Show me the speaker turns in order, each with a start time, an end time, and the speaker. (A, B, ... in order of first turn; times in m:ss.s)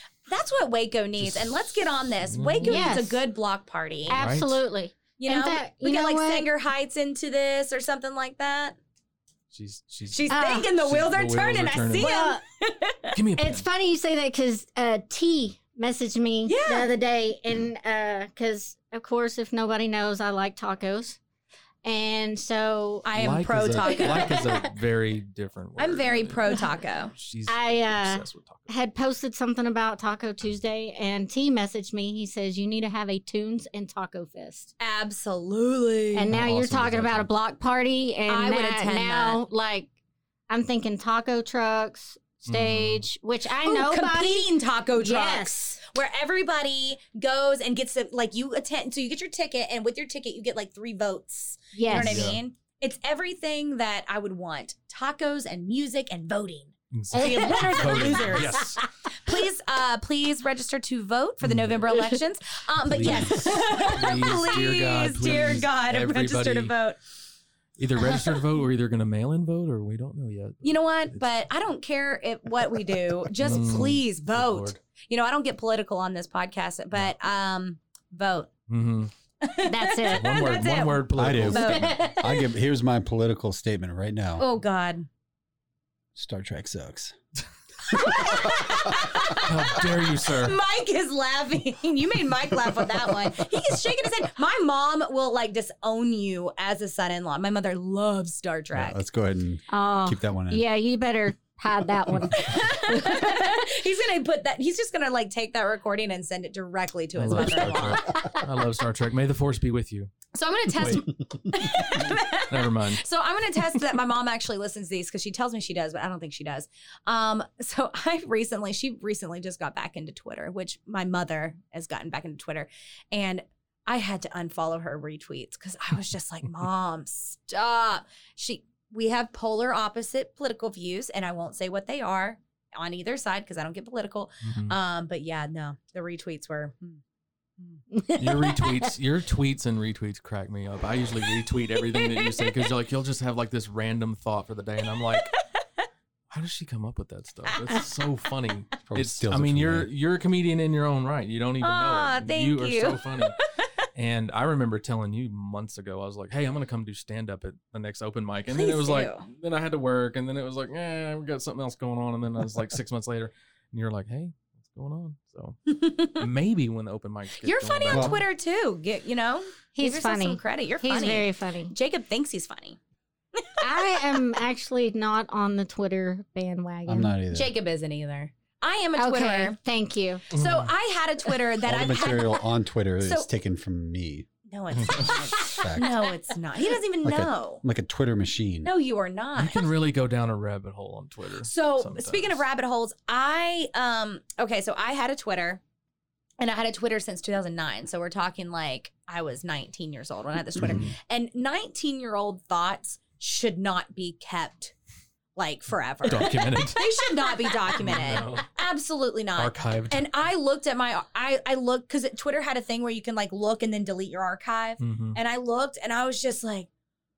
0:00.3-0:04.2 A
0:01.2-0:02.9 B
0:02.6-0:03.2 C
0:04.1-0:06.5 C
0:04.1-0:04.6 B
0:05.2-0:08.8 A
0:09.5-0:12.1 B
0:10.1-0:13.1 A
0:10.3-0:10.7 C
0:12.0-0:12.4 C
0:13.1-0:13.6 B
0:13.4-0:21.2 C
0:16.4-0:16.9 A
0:21.8-0:23.1 C
0:23.0-0:24.5 A
0:23.1-0:26.6 B
0:23.8-0:24.6 C
0:25.8-0:27.1 A
0:27.1-0:28.7 B
0:27.5-0:34.7 C
0:34.8-0:36.3 A
0:36.1-0:39.9 C
0:36.3-0:37.3 B
0:38.3-0:39.4 A
0:40.5-0:45.8 C
0:42.4-0:43.0 B
0:43.6-1:07.0 A
0:51.7-0:52.4 C
0:51.9-0:52.4 B
0:56.9-0:58.8 B
0:57.1-0:58.8 C
1:01.4-1:01.8 B
1:02.9-1:06.8 B
1:07.8-1:11.3 B
1:10.6-1:18.5 A
1:13.4-1:14.8 B
1:18.7-1:19.1 B
1:19.4-1:22.4 A
1:19.6-1:20.5 C
1:20.1-1:21.9 B
1:21.2-1:24.4 D
1:21.7-1:22.1 C
1:24.4-1:25.1 A
1:26.1-1:27.2 D
1:27.9-1:39.0 A
1:27.9-1:29.2 D
1:29.4-1:30.6 B
1:38.7-1:40.6 D
1:39.7-1:43.7 C
1:42.4-1:48.2 A
1:47.2-1:50.1 B
1:50.3-2:17.0 A
1:50.8-1:51.0 B
1:52.5-1:53.0 B
2:14.4-2:14.8 B
2:17.9-2:18.6 C
2:18.2-2:25.4 B
2:22.1-2:22.5 A
2:26.3-2:33.4 B
2:28.9-2:29.9 D
2:31.6-2:33.3 A
2:33.9-2:48.2 B
2:38.5-2:39.2 A
2:45.7-2:46.2 A
2:47.4-2:52.8 A
2:47.9-2:48.2 D
2:49.8-2:51.8 C
2:53.6-2:57.1 C
2:56.9-2:57.5 D
2:57.3-2:59.6 A
2:59.0-3:00.2 C
3:00.3-3:02.5 A
3:00.3-3:00.7 B
3:01.6-3:04.3 D
3:03.0-3:03.3 A
3:04.5-3:07.6 A
3:04.7-3:05.1 B
3:04.9-3:06.0 D
3:07.0-3:08.7 D
3:08.6-3:09.7 A
3:09.4-3:12.4 B
3:11.4-3:15.6 A
3:16.4-3:24.7 A
3:20.6-3:21.0 B
3:25.4-3:36.7 A
3:26.0-3:26.8 B
3:27.7-3:28.5 B
3:29.4-3:30.1 B
3:34.8-3:35.2 B